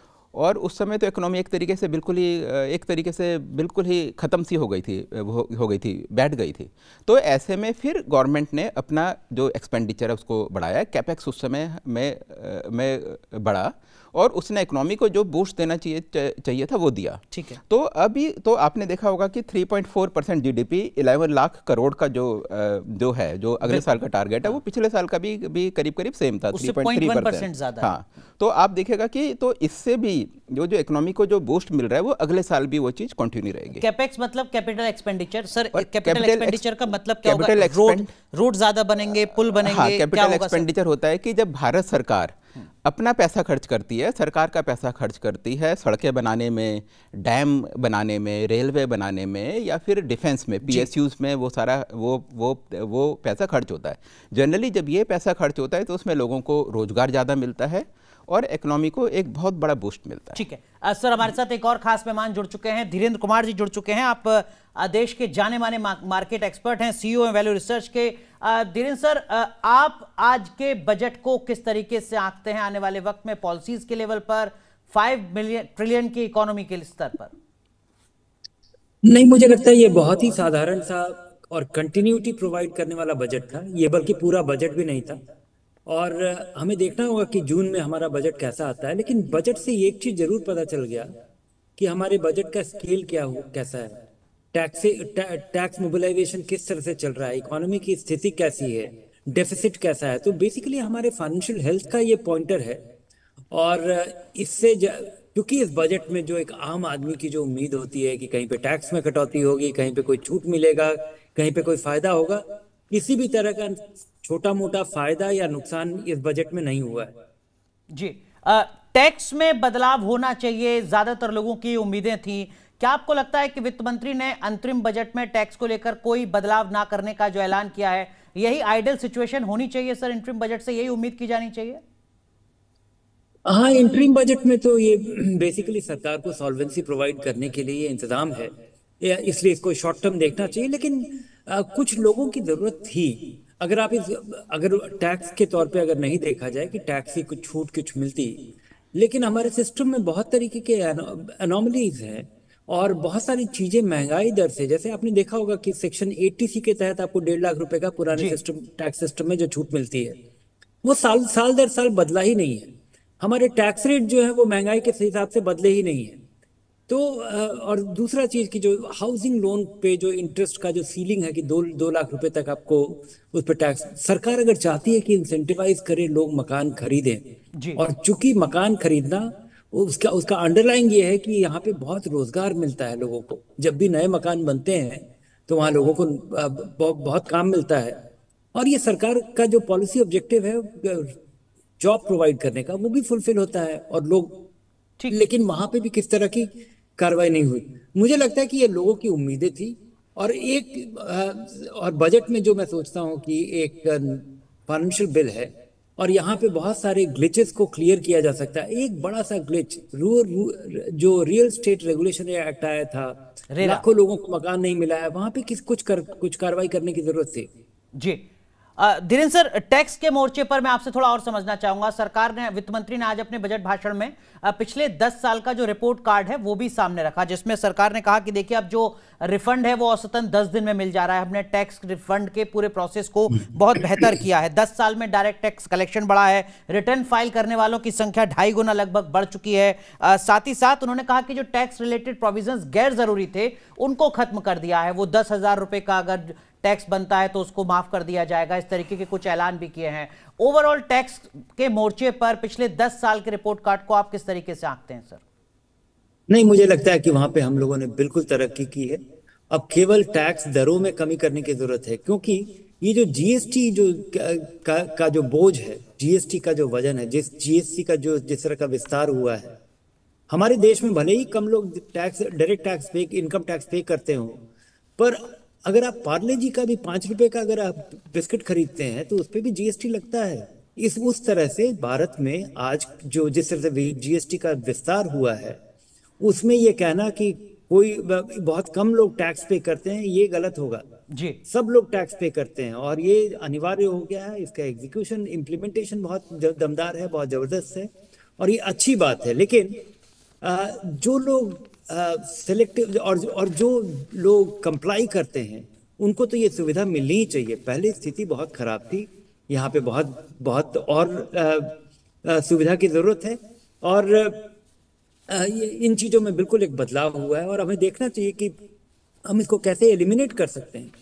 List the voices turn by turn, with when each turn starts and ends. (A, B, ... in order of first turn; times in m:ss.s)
0:00.3-0:33.8 A
0:17.3-0:17.6 B
0:26.5-0:27.9 B
0:33.8-0:40.6 B
0:35.7-0:36.6 A
0:37.2-0:38.1 A
0:39.6-1:00.4 A
1:00.4-1:17.3 B
1:19.0-1:25.2 C
1:25.9-1:31.1 C
1:31.8-1:34.0 C
1:34.5-1:42.8 C
1:43.5-1:57.2 C
1:57.9-2:11.8 B
2:13.5-2:40.2 C
2:40.8-2:46.2 C
2:46.9-3:08.0 C
3:08.5-3:11.1 C
3:11.8-3:14.5 C
3:15.0-3:15.3 B
3:15.1-3:37.5 C
3:33.5-3:33.8 B
3:38.0-3:38.2 B
3:38.8-4:15.2 B
4:16.3-4:29.5 C
4:30.3-4:34.4 C
4:35.0-4:45.6 C
4:46.2-4:50.8 C
4:51.1-4:51.4 B
4:51.5-4:59.8 C
5:00.4-5:14.5 C
5:15.3-5:18.6 C
5:19.3-5:20.9 C